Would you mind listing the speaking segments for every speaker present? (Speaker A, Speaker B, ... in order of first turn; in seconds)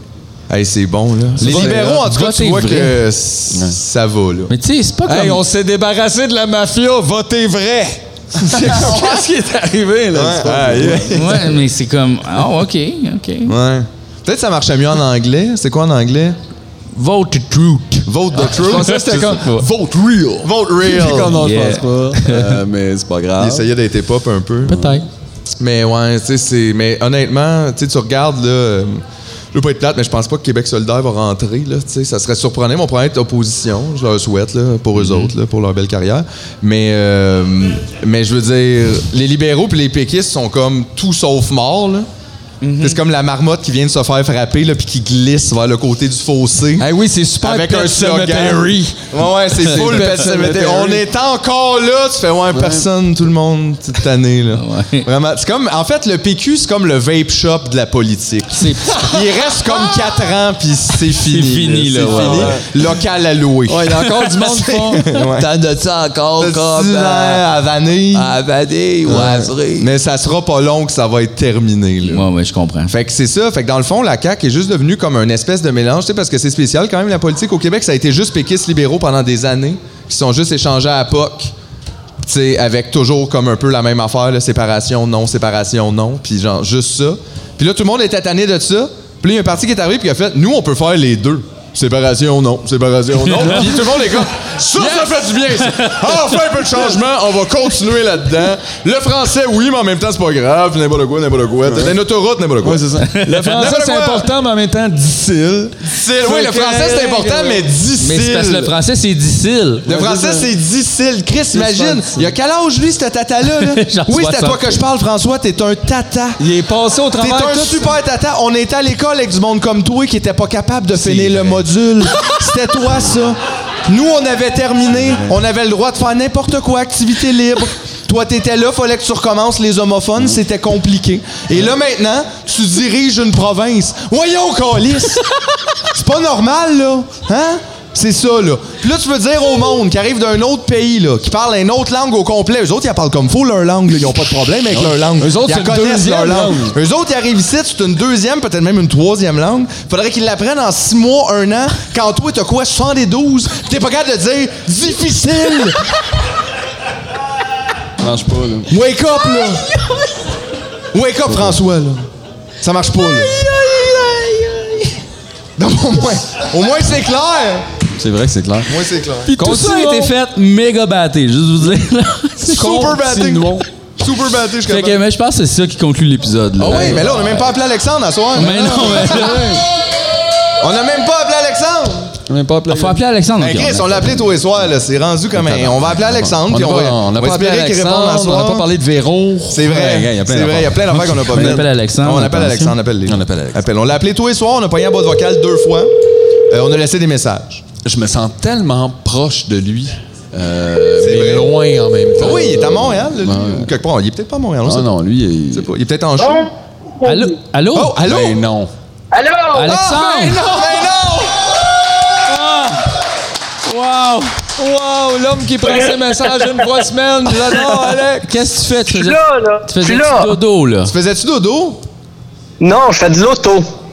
Speaker A: 0.5-4.5, 8.4-9.2, 10.1-11.6, 13.5-16.4, 18.1-19.4, 20.4-21.4, 23.4-24.8, 25.6-29.0, 29.5-42.1, 42.8-46.9, 47.4-65.5, 66.4-68.3, 69.1-72.3, 72.9-81.5, 82.2-102.9, 103.5-104.3, 105.8-108.7, 109.9-116.4, 117.2-155.8, 158.7-159.7, 160.9-162.1, 162.6-163.3, 165.6-167.7, 168.7-169.3, 172.5-175.0, 176.6-179.3, 180.6-182.2, 183.4-188.7, 189.5-195.9, 196.5-197.7, 201.0-201.5, 202.2-204.9, 205.5-206.5, 207.7-208.4, 209.7-212.2, 220.9-221.8
Speaker B: 1.4-2.0, 3.5-3.8, 5.1-11.5, 18.3-23.7, 24.7-25.0, 46.8-51.0, 52.5-52.9, 62.1-62.7, 63.7-67.5, 68.1-69.9, 93.3-94.2, 94.8-95.3, 101.7-102.0, 102.6-107.7, 109.9-110.5, 111.5-112.3, 116.4-117.9, 120.9-121.7, 144.7-146.8, 158.0-158.7, 161.3-161.6, 168.0-168.7, 169.3-170.1, 172.4-173.7, 176.6-177.4, 178.4-179.7, 182.3-183.0, 185.6-191.7, 193.1-193.7, 197.8-203.8, 204.6-205.7, 208.0-208.7, 210.5-211.2, 214.6-218.3
Speaker C: 1.4-3.0, 4.5-5.4, 11.1-13.5, 16.9-19.6, 21.3-22.5, 24.7-25.1, 35.0-35.3, 42.6-43.0, 54.5-55.1, 58.5-59.0, 61.3-62.6, 72.0-72.9, 93.5-93.8, 103.0-103.7, 108.0-109.9, 113.5-114.8, 159.3-160.2, 163.0-165.0, 169.3-172.8, 174.7-177.4, 178.3-179.6, 182.7-184.2, 191.0-192.8, 207.0-208.1, 209.5-210.5, 212.2-212.9, 213.7-214.4, 218.2-220.9
Speaker D: 206.2-206.5, 207.0-207.3, 209.1-209.7, 215.7-215.9, 218.9-220.3, 222.6-223.7